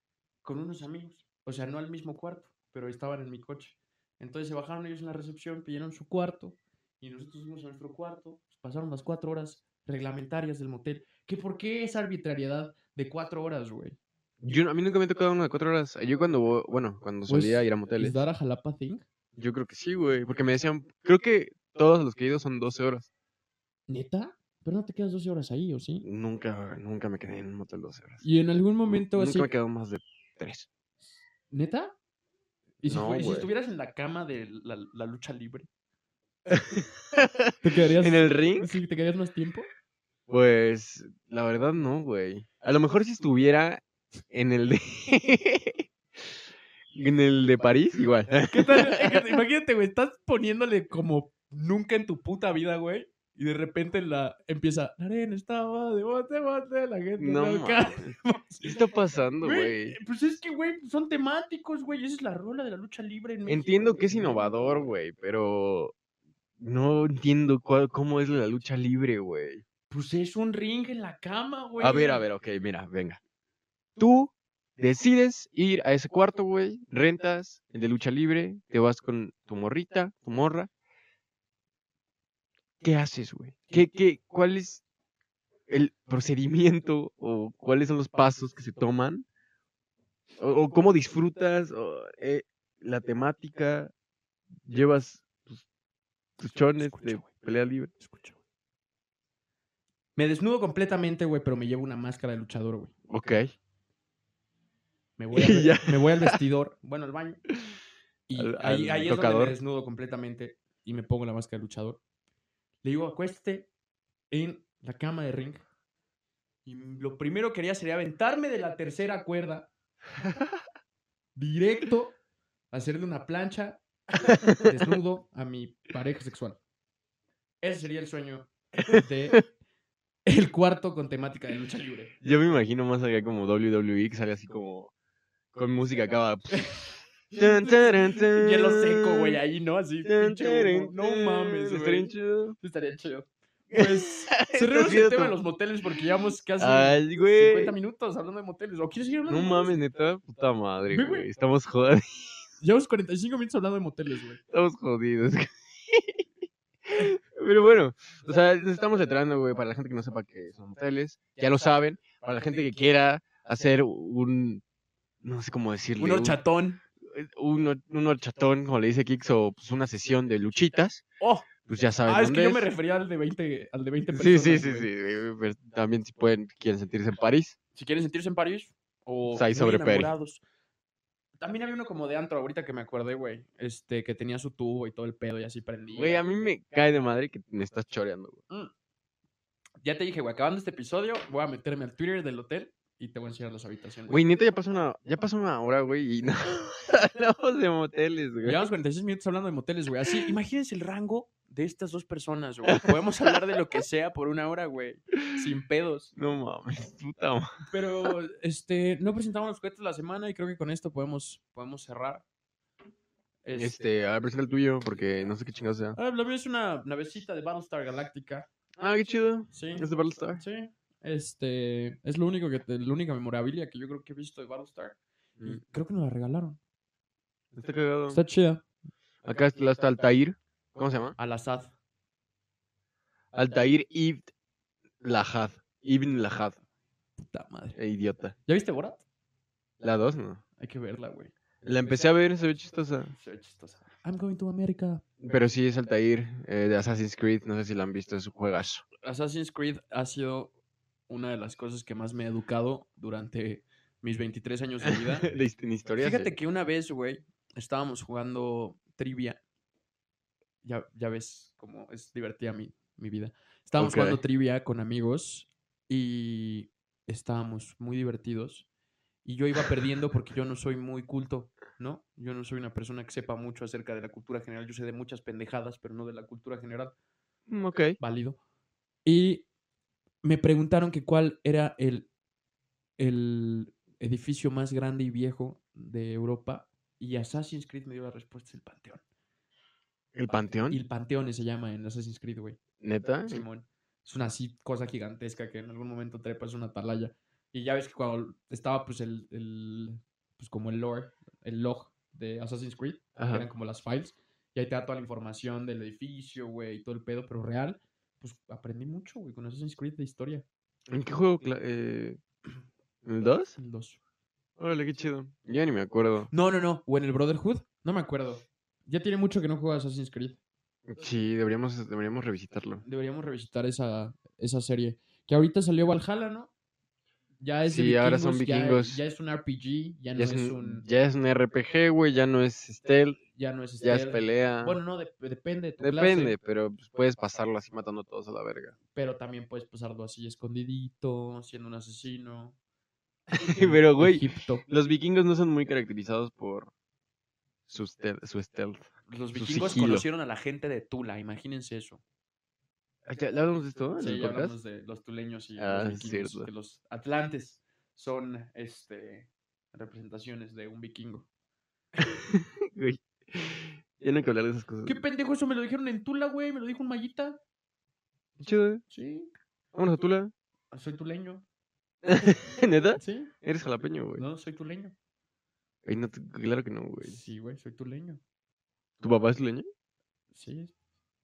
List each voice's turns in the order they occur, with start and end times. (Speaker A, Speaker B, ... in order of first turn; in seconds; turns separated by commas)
Speaker A: 0.4-14.0, Speaker B: 14.4-18.2, Speaker A: 17.3-19.1, Speaker B: 19.4-23.1, Speaker A: 23.9-26.1, Speaker B: 26.0-28.2, Speaker A: 28.2-29.5, Speaker B: 28.9-30.7, Speaker A: 31.5-31.9, Speaker A: 32.8-35.7, Speaker B: 32.8-33.5, Speaker B: 36.5-38.7, Speaker A: 37.6-39.7, Speaker B: 40.3-45.9, Speaker B: 46.9-49.2, Speaker A: 48.5-64.9, Speaker B: 57.2-60.0, Speaker B: 63.5-65.9, Speaker B: 66.6-69.6, Speaker A: 69.9-72.2, Speaker B: 71.8-73.2, Speaker B: 74.0-80.7, Speaker B: 82.8-84.8, Speaker B: 85.7-89.3, Speaker B: 90.4-93.9, Speaker B: 94.7-95.6, Speaker B: 96.4-97.9, Speaker A: 96.5-97.3, Speaker A: 98.0-98.4, Speaker A: 100.2-102.9, Speaker B: 103.1-103.5, Speaker A: 105.2-107.4, Speaker B: 105.3-106.4, Speaker A: 108.3-112.0, Speaker B: 108.4-109.6, Speaker A: 112.8-113.7, Speaker A: 114.3-115.7, Speaker A: 116.7-119.7, Speaker A: 121.4-122.2, Speaker A: 122.7-123.8, Speaker B: 124.3-124.7, Speaker A: 124.6-126.6, Speaker A: 127.6-129.5, Speaker A: 130.3-132.1, Speaker B: 132.2-134.9, Speaker B: 135.5-136.8, Speaker A: 136.5-149.8, Speaker B: 137.3-139.4, Speaker B: 140.1-142.6, Speaker B: 143.7-145.4, Speaker B: 146.6-147.8, Speaker B: 149.3-152.5, Speaker A: 150.9-151.3, Speaker A: 152.6-154.4, Speaker B: 154.5-156.2, Speaker B: 156.9-164.6, Speaker B: 165.2-166.4, Speaker A: 166.0-166.8, Speaker B: 167.0-171.1, Speaker A: 171.2-171.5, Speaker B: 171.6-172.7, Speaker A: 172.1-174.9, Speaker B: 174.1-177.6, Speaker A: 177.8-180.4, Speaker B: 179.3-180.1, Speaker A: 181.4-186.2, Speaker B: 185.9-188.4, Speaker A: 189.8-194.2, Speaker B: 194.1-198.6, Speaker A: 198.4-206.1, Speaker B: 206.2-207.5, Speaker A: 207.7-212.2, Speaker A: 213.4-213.8, Speaker B: 213.6-216.0, Speaker A: 215.9-218.5, Speaker B: 218.8-220.4, Speaker A: 219.5-226.6, Speaker B: 227.5-228.2, Speaker A: 228.1-228.6, Speaker B: 229.2-231.2, Speaker A: 231.2-231.7, Speaker B: 233.3-234.3, Speaker B: 235.0-236.6, Speaker A: 237.2-237.8, Speaker B: 237.8-238.3, Speaker A: 238.5-239.0, Speaker B: 239.8-240.4, Speaker A: 240.6-241.3, Speaker B: 241.6-243.1, Speaker A: 243.1-245.0, Speaker B: 245.2-248.8, Speaker A: 249.0-250.5, Speaker A: 251.1-255.3, Speaker B: 254.8-256.3, Speaker A: 256.0-259.4, Speaker A: 260.6-268.7, Speaker B: 263.8-264.2, Speaker A: 269.2-276.9, Speaker B: 277.5-278.0, Speaker A: 278.0-278.4, Speaker A: 279.1-279.5, Speaker A: 280.2-282.1, Speaker A: 283.0-289.0, Speaker B: 290.1-290.8, Speaker A: 290.7-292.6, Speaker B: 292.8-293.4, Speaker A: 293.3-310.4, Speaker B: 303.2-303.5, Speaker B: 310.9-312.2, Speaker B: 313.1-313.6, Speaker A: 313.6-314.0, Speaker B: 314.6-316.3, Speaker A: 316.3-320.4, Speaker B: 320.9-322.8, Speaker A: 322.8-326.5, Speaker A: 327.4-330.9, Speaker B: 327.7-329.0, Speaker B: 330.1-333.2, Speaker A: 333.3-336.4, Speaker B: 333.8-334.8, Speaker B: 335.8-338.8, Speaker A: 338.9-342.6, Speaker B: 343.3-346.7, Speaker A: 343.4-344.7, Speaker B: 347.7-350.1, Speaker A: 349.1-352.0, Speaker B: 353.1-354.6, Speaker A: 354.0-361.3, Speaker B: 355.6-356.5, Speaker B: 362.0-365.0, Speaker A: 364.9-367.4, Speaker B: 368.4-368.8, Speaker A: 368.9-369.3, Speaker B: 369.7-370.3, Speaker A: 370.7-371.4, Speaker B: 372.0-374.2, Speaker A: 373.0-373.3, Speaker A: 374.2-374.9, Speaker B: 375.9-377.2, Speaker A: 377.0-378.2, Speaker B: 379.0-379.7, Speaker A: 380.3-380.7